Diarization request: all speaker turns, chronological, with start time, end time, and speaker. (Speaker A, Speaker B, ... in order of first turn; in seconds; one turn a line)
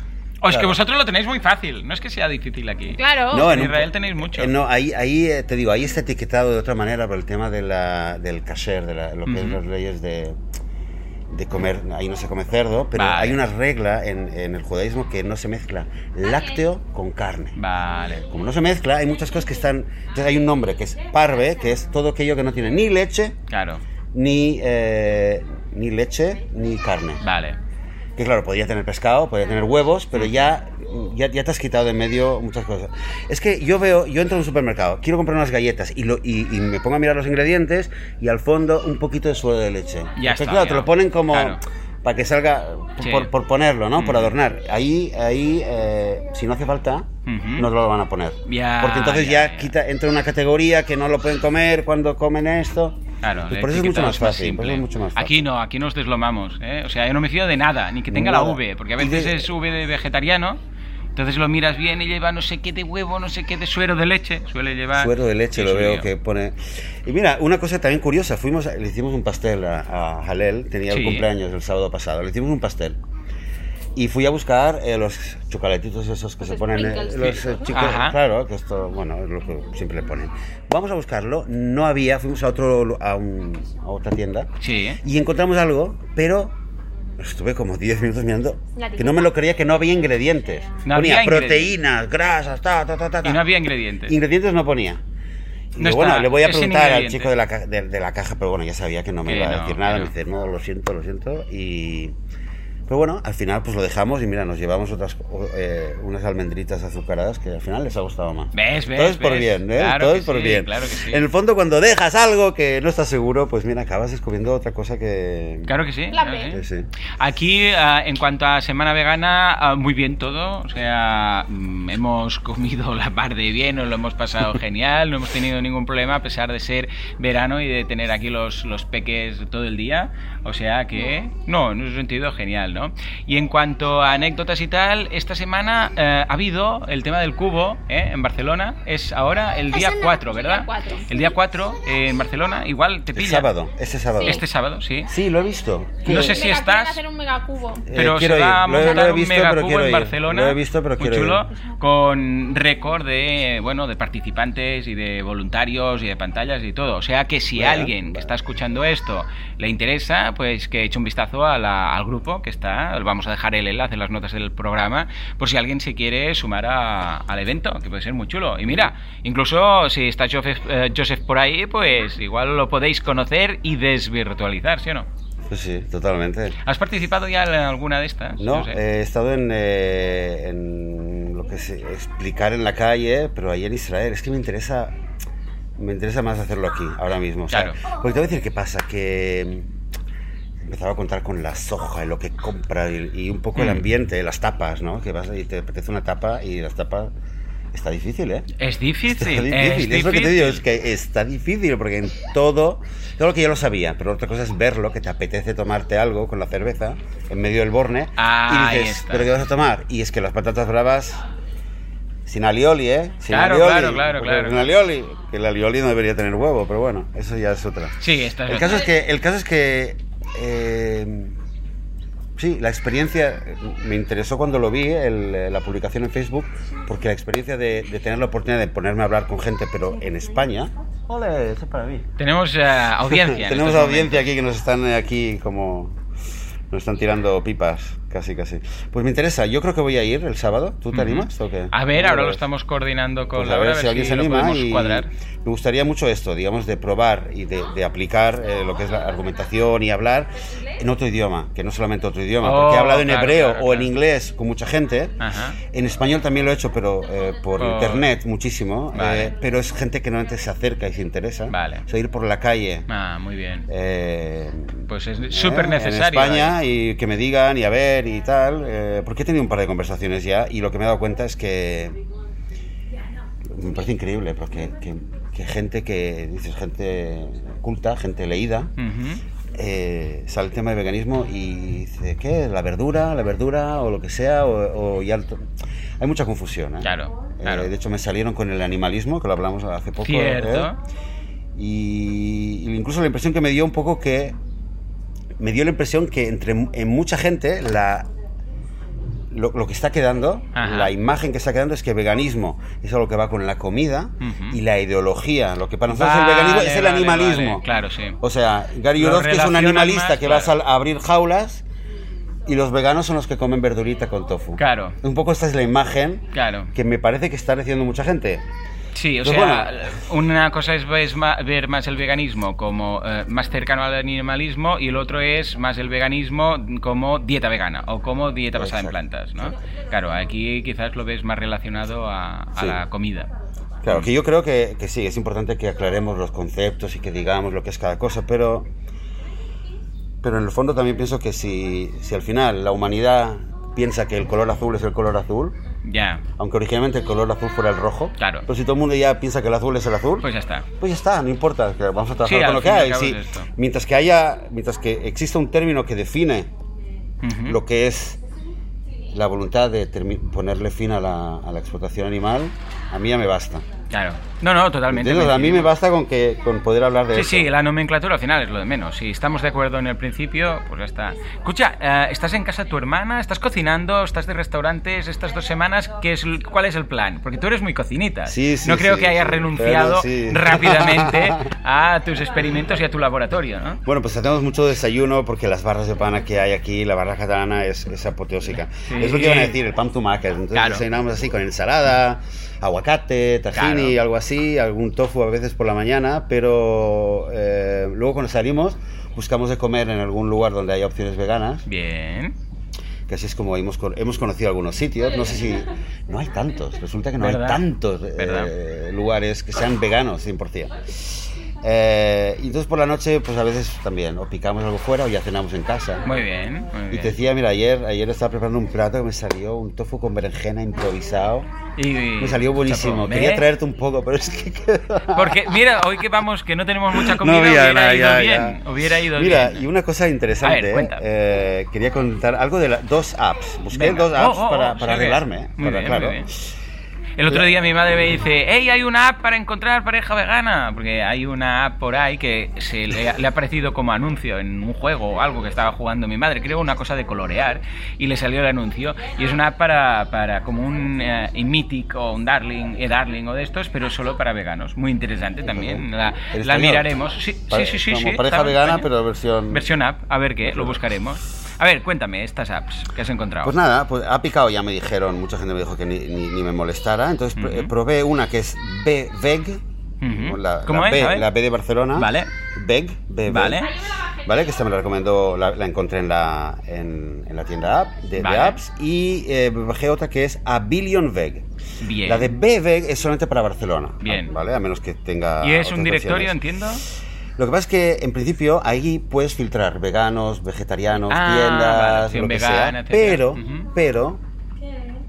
Speaker A: 0.4-4.5
Speaker B: 0.5-0.8
Speaker C: 3.0-3.5
Speaker B: 3.3-10.4
Speaker A: 9.2-9.6
Speaker B: 11.3-17.6
Speaker A: 12.9-13.4
Speaker A: 17.6-18.2
Speaker B: 18.2-23.4
Speaker A: 23.5-23.8
Speaker B: 24.1-27.2
Speaker A: 27.2-27.6
Speaker B: 28.2-55.4
Speaker A: 40.2-41.6
Speaker A: 43.0-43.3
Speaker A: 44.0-44.3
Speaker A: 47.2-47.7
Speaker A: 48.5-49.7
Speaker A: 53.2-60.6
Speaker B: 58.1-59.5
Speaker A: 61.1-66.1
Speaker B: 64.9-73.0
Speaker A: 70.9-71.3
Speaker B: 73.9-84.5
Speaker C: 76.4-77.8
Speaker A: 77.2-78.2
Speaker A: 84.6-85.0
Speaker B: 85.0-86.5
Speaker B: 87.2-93.5
Speaker C: 88.8-89.3
Speaker A: 90.9-91.8
Speaker A: 93.2-94.1
Speaker B: 94.0-95.0
Speaker B: 95.7-102.1
Speaker A: 95.8-97.3
Speaker A: 99.2-100.1
Speaker B: 102.9-115.7
Speaker A: 108.5-111.2
Speaker A: 115.7-116.6
Speaker C: 116.1-116.5
Speaker B: 116.5-116.9
Speaker A: 117.2-143.5
Speaker C: 140.1-141.1
Speaker B: 143.1-144.4
Speaker A: 144.2-145.1
Speaker B: 145.1-146.4
Speaker A: 146.1-147.0
Speaker C: 146.1-147.9
Speaker B: 147.9-151.5
Speaker A: 147.9-175.1
Speaker B: 157.5-157.9
Speaker B: 175.5-176.6
Speaker A: 176.6-178.8
Speaker B: 178.4-184.9
Speaker B: 185.8-189.7
Speaker A: 187.5-187.8
Speaker B: 190.6-197.1
Speaker A: 193.6-193.8
Speaker B: 197.7-198.5
Speaker A: 198.6-200.6
Speaker B: 199.1-211.2
Speaker A: 208.2-209.4
Speaker B: 212.2-221.3
Speaker A: 213.3-214.7
Speaker A: 218.0-218.9
Speaker B: 222.4-232.1
Speaker A: 232.2-234.3
Speaker B: 233.1-236.0
Speaker B: 236.7-242.4
Speaker A: 240.9-245.1
Speaker B: 243.3-262.9
Speaker A: 252.4-253.9
Speaker A: 255.2-255.6
Speaker A: 257.6-258.1
Speaker A: 258.9-259.3
Speaker A: 261.5-261.8
Speaker A: 262.9-263.6
Speaker B: 263.7-272.0
Speaker A: 264.9-266.6
Speaker B: 273.4-278.7
Speaker A: 278.8-279.2
Speaker B: 279.6-285.5
Speaker B: 286.0-290.7
Speaker A: 286.8-287.7
Speaker A: 290.0-290.8
Speaker B: 291.6-294.4
Speaker B: 295.4-298.1
Speaker B: 299.3-307.6
Speaker A: 300.6-300.9
Speaker A: 304.2-304.6
Speaker A: 305.9-308.2
Speaker B: 308.2-311.6
Speaker A: 309.0-310.6
Speaker B: 312.4-318.4
Speaker A: 314.6-314.9
Speaker A: 316.3-316.7
Speaker A: 318.9-333.3
Speaker B: 319.2-319.7
Speaker B: 328.6-329.0
Speaker B: 333.8-338.7
Speaker B: 340.2-345.6
Speaker A: 345.8-346.2
Speaker B: 346.4-356.5
Speaker A: 348.2-348.4
Speaker A: 350.2-350.7
Speaker A: 352.2-353.5
Speaker A: 357.2-357.6
Speaker B: 357.4-358.2
Speaker B: 359.1-363.6
Speaker A: 363.9-365.7
Speaker B: 364.9-367.5
Speaker A: 367.1-383.8
Speaker B: 378.2-381.5
Speaker B: 383.9-401.6
Speaker A: 388.9-389.6
Speaker A: 390.6-390.9
Speaker A: 393.6-393.9
Speaker A: 401.7-402.3
Speaker B: 403.1-416.1
Speaker A: 407.2-407.6
Speaker A: 408.2-408.5
Speaker A: 416.0-417.1
Speaker B: 416.9-421.5
Speaker A: 421.8-423.5
Speaker B: 422.2-425.6
Speaker A: 425.1-429.6
Speaker B: 426.9-436.3
Speaker A: 430.4-431.0
Speaker A: 433.7-436.3
Speaker A: 437.2-458.9
Speaker B: 455.5-456.9
Speaker B: 457.5-459.7
Speaker A: 459.5-463.6
Speaker B: 460.4-460.8
Speaker B: 463.4-473.7
Speaker A: 467.4-467.7
Speaker A: 470.0-471.3
Speaker A: 471.9-472.3
Speaker A: 473.3-473.7
Speaker B: 474.2-481.4
Speaker A: 478.2-478.6
Speaker A: 481.8-482.3
Speaker B: 482.0-486.4
Speaker A: 484.0-484.3
Speaker A: 485.4-486.8
Speaker B: 487.4-494.2
Speaker A: 491.1-493.7